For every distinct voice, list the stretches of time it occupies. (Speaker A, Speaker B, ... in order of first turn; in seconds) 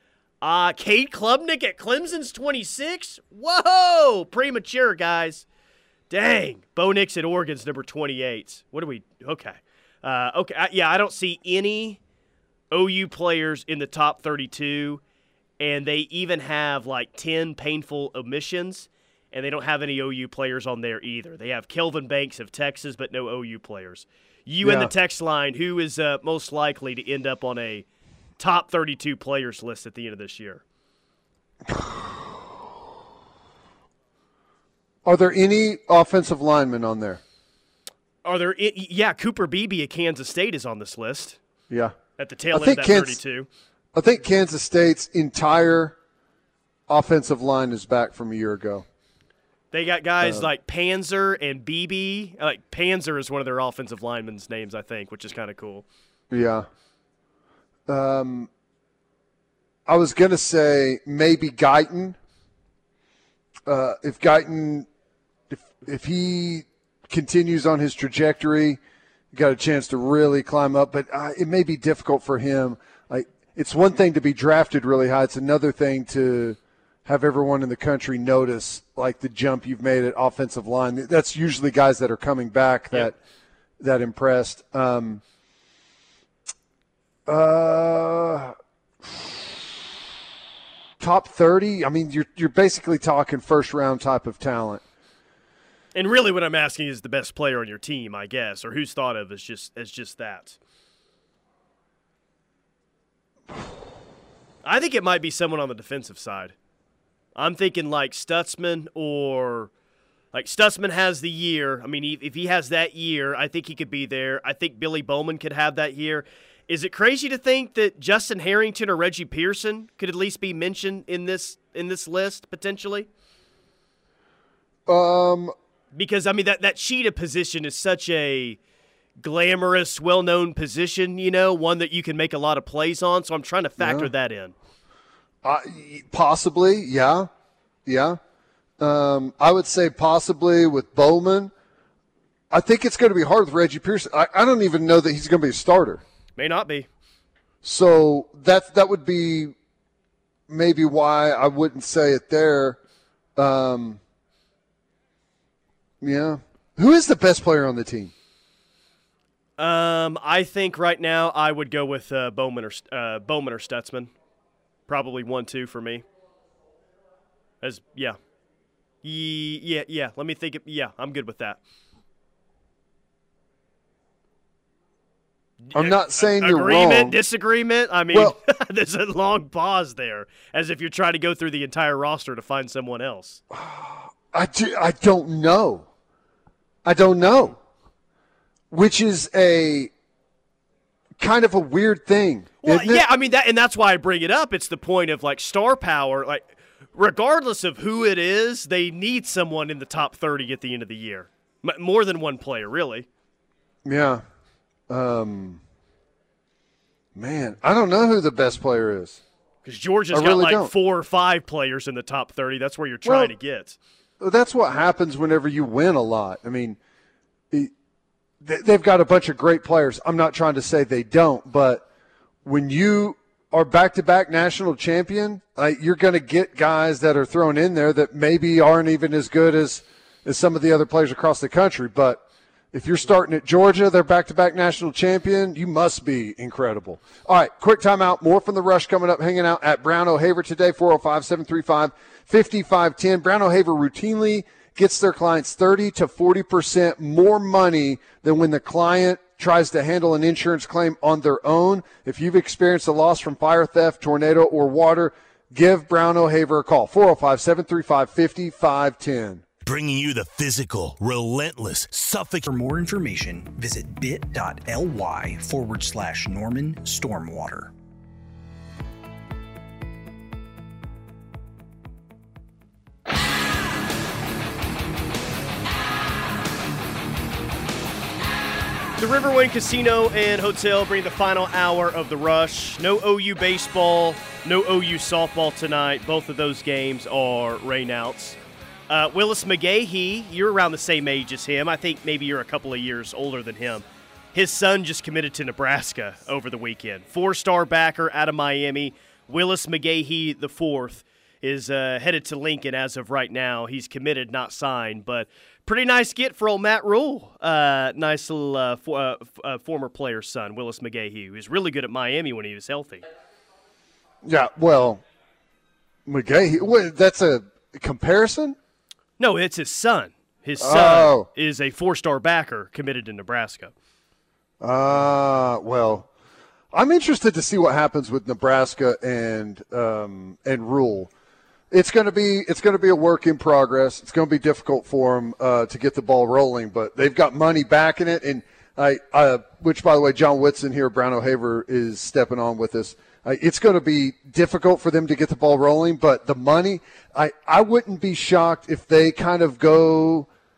Speaker A: 0.4-5.5, 6.1-12.0, 12.7-15.0, 15.6-27.9, 28.4-30.6, 38.2-41.4, 42.2-43.5, 49.7-55.9, 96.0-100.6, 104.6-106.5, 107.4-109.7, 110.3-123.1, 125.9-128.6, 129.2-134.5, 146.4-146.9, 159.6-164.1, 164.9-166.0, 167.6-168.2, 169.0-171.6, 175.7-183.4, 192.6-203.1, 209.7-213.8, 279.0-288.4, 288.9-313.0, 319.2-323.7
Speaker B: 24.6-24.9, 31.7-32.1, 35.0-37.2, 41.7-42.0, 42.5-43.2, 43.9-46.0, 46.9-48.9, 50.2-50.5, 56.3-56.7, 57.9-58.5, 59.9-62.2, 63.7-64.9, 65.5-68.8, 69.3-83.2, 83.8-85.2, 87.3-89.5, 91.0-94.8, 124.9-125.5, 133.8-134.1, 135.4-137.3, 137.9-138.2, 138.8-141.5, 142.5-146.0, 147.6-149.6, 150.5-152.8, 153.4-154.0, 156.0-158.1, 175.7-177.2, 178.1-178.4, 183.5-185.9, 186.8-187.6, 188.7-189.9, 191.2-193.1, 203.8-204.2, 204.9-205.6, 207.2-209.2, 210.1-210.7, 213.1-213.3, 214.2-216.8, 218.4-221.9, 222.4-259.4, 314.2-315.0, 316.1-318.6, 320.6-321.3, 324.6-326.1, 326.7-331.1, 331.7-350.3
Speaker C: 259.6-262.5
Speaker D: 262.4-267.7